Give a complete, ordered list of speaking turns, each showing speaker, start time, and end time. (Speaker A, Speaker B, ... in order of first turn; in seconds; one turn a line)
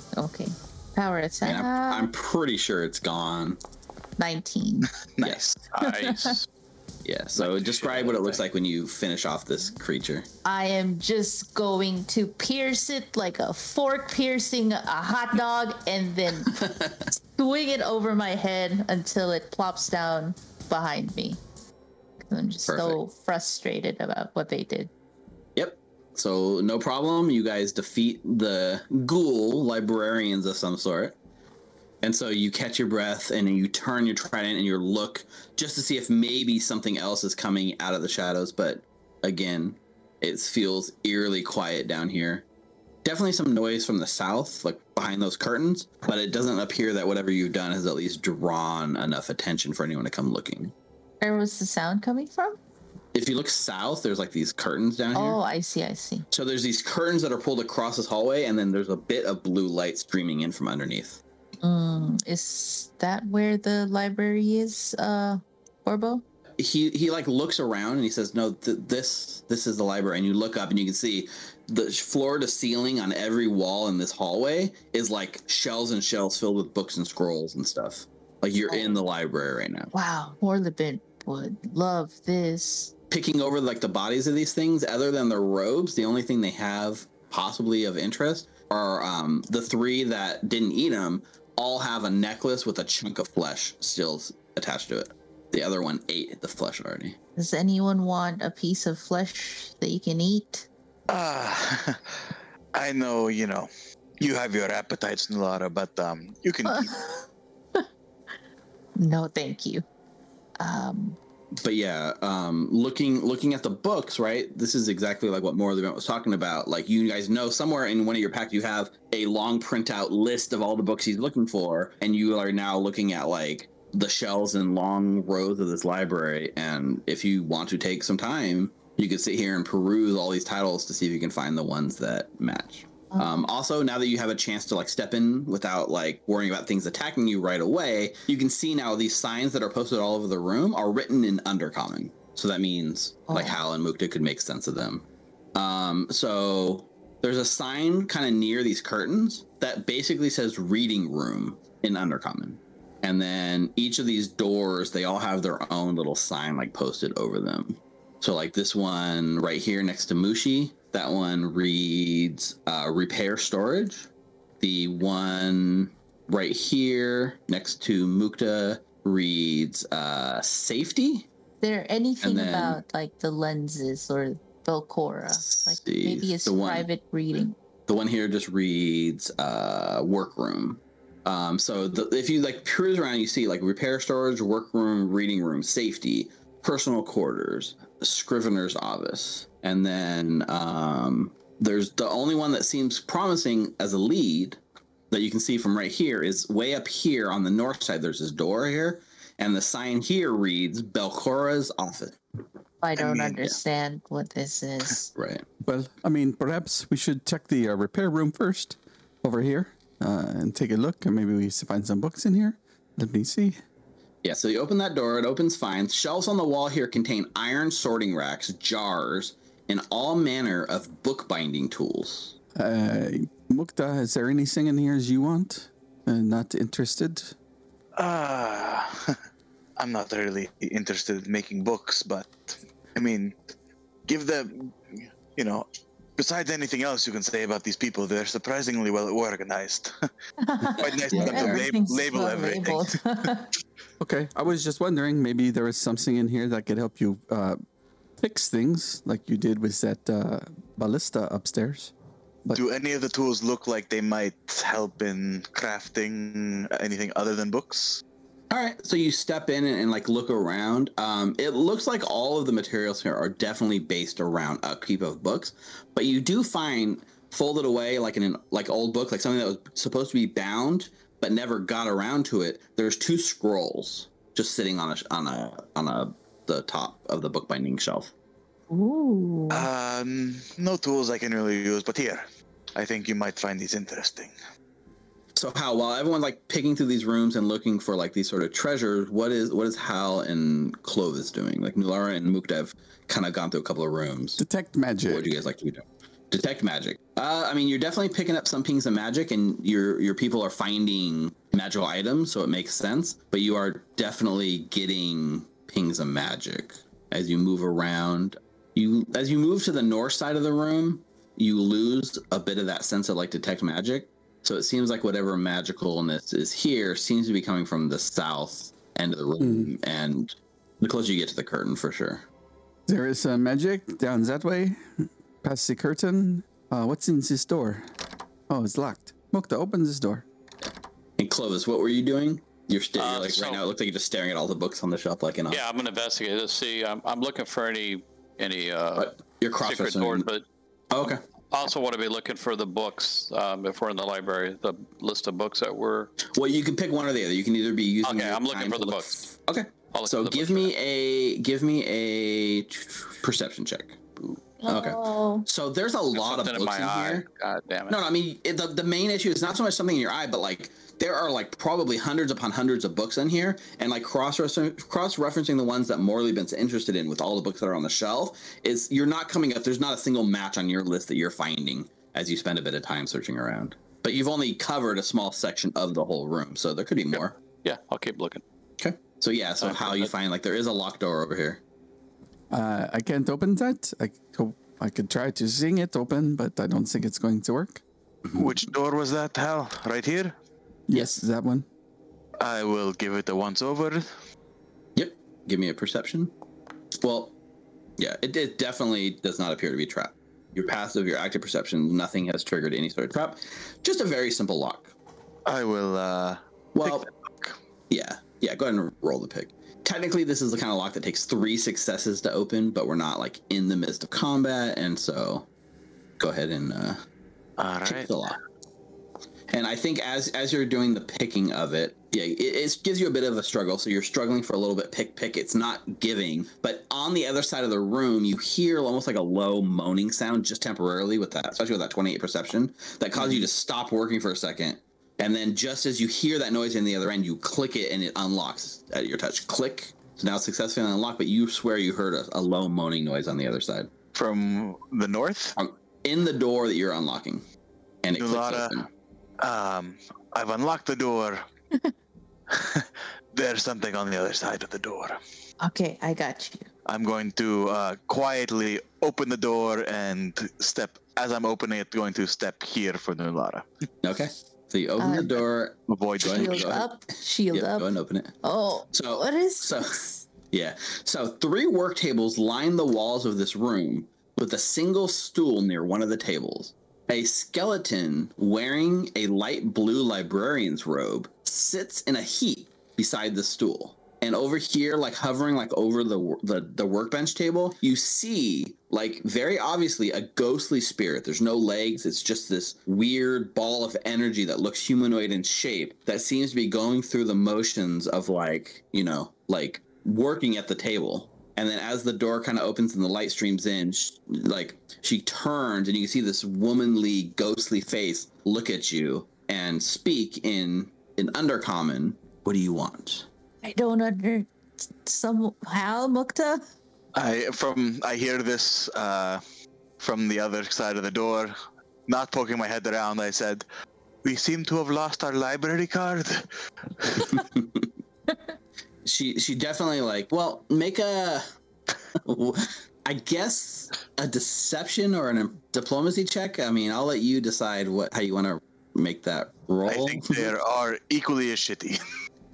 Speaker A: 0.1-2.1
Speaker B: 1.4-3.6
Speaker A: 4.2-4.9
Speaker C: 5.2-5.5
Speaker B: 5.2-5.5
Speaker D: 5.7-6.5
Speaker A: 5.8-6.3
Speaker B: 7.0-10.2
Speaker D: 7.4-8.4
Speaker A: 10.4-21.4
Speaker B: 16.5-17.0
Speaker A: 22.3-24.9
Speaker B: 22.7-23.0
Speaker B: 25.6-31.1
Speaker B: 32.0-42.4
Speaker B: 43.0-50.7
Speaker A: 51.2-52.6
Speaker B: 53.1-55.4
Speaker A: 55.1-56.2
Speaker B: 56.3-61.2
Speaker A: 61.6-66.2
Speaker B: 66.6-79.9
Speaker A: 78.7-79.0
Speaker A: 79.9-82.9
Speaker B: 83.1-97.2
Speaker A: 97.4-100.7
Speaker C: 101.1-106.9
Speaker A: 106.7-107.2
Speaker A: 109.0-109.8
Speaker A: 110.6-111.2
Speaker B: 111.6-164.1
Speaker A: 133.1-133.5
Speaker A: 143.3-143.6
Speaker B: 164.6-171.3
Speaker A: 171.6-177.5
Speaker B: 172.2-172.8
Speaker B: 175.3-176.9
Speaker B: 177.9-194.6
Speaker B: 195.1-202.2
Speaker A: 202.8-205.1
Speaker C: 203.0-203.3
Speaker B: 205.2-205.4
Speaker E: 205.6-213.6
Speaker B: 214.2-222.3
Speaker E: 222.6-227.3
Speaker C: 228.0-229.2
Speaker C: 229.8-233.3
Speaker C: 234.1-239.9
Speaker A: 240.4-243.5
Speaker C: 240.7-243.0
Speaker B: 241.1-241.5
Speaker E: 244.0-247.6
Speaker E: 248.2-251.9
Speaker C: 252.5-258.0
Speaker B: 258.5-278.1
Speaker A: 278.7-279.7
Speaker C: 279.5-282.2
Speaker C: 282.8-284.3
Speaker B: 285.3-294.4
Speaker E: 294.4-295.3
Speaker B: 295.1-322.2
Speaker E: 319.4-319.7
Speaker E: 322.9-327.9
Speaker E: 328.5-330.2
Speaker B: 331.2-335.6
Speaker D: 333.0-333.6
Speaker D: 335.5-340.4
Speaker B: 339.0-340.3
Speaker B: 340.9-341.2
Speaker D: 341.5-346.1
Speaker B: 346.2-354.0
Speaker D: 348.0-349.2
Speaker D: 349.9-350.7
Speaker A: 354.6-355.4
Speaker B: 354.7-357.2
Speaker D: 356.1-358.0
Speaker B: 357.9-377.4
Speaker D: 377.1-378.4
Speaker B: 378.8-381.6
Speaker D: 379.6-380.1
Speaker E: 382.5-387.8
Speaker C: 388.3-390.3
Speaker E: 390.9-391.7
Speaker B: 390.9-391.2
Speaker C: 392.4-394.1
Speaker B: 394.9-396.3
Speaker B: 397.0-397.3
Speaker B: 398.0-404.9
Speaker C: 405.4-407.5
Speaker B: 406.7-407.1
Speaker B: 407.9-415.5
Speaker B: 416.2-417.0
Speaker C: 417.6-418.1
Speaker B: 417.9-418.4
Speaker B: 419.5-443.9
Speaker C: 444.1-445.5
Speaker B: 445.6-447.4
Speaker B: 448.0-448.9
Speaker C: 448.2-448.8
Speaker C: 449.4-451.4
Speaker C: 452.5-455.2
Speaker A: 455.6-456.7
Speaker C: 456.9-463.6
Speaker B: 464.0-466.8
Speaker A: 465.0-465.4
Speaker C: 465.9-466.8
Speaker A: 466.2-467.9
Speaker B: 467.5-468.3
Speaker A: 468.4-469.8
Speaker B: 468.9-513.3
Speaker A: 513.6-516.6
Speaker C: 517.1-519.4
Speaker C: 520.0-521.5
Speaker C: 522.1-523.6
Speaker C: 524.2-526.4
Speaker C: 527.0-527.4
Speaker B: 527.3-527.9
Speaker B: 529.0-531.4
Speaker B: 532.2-540.5
Speaker C: 539.9-542.0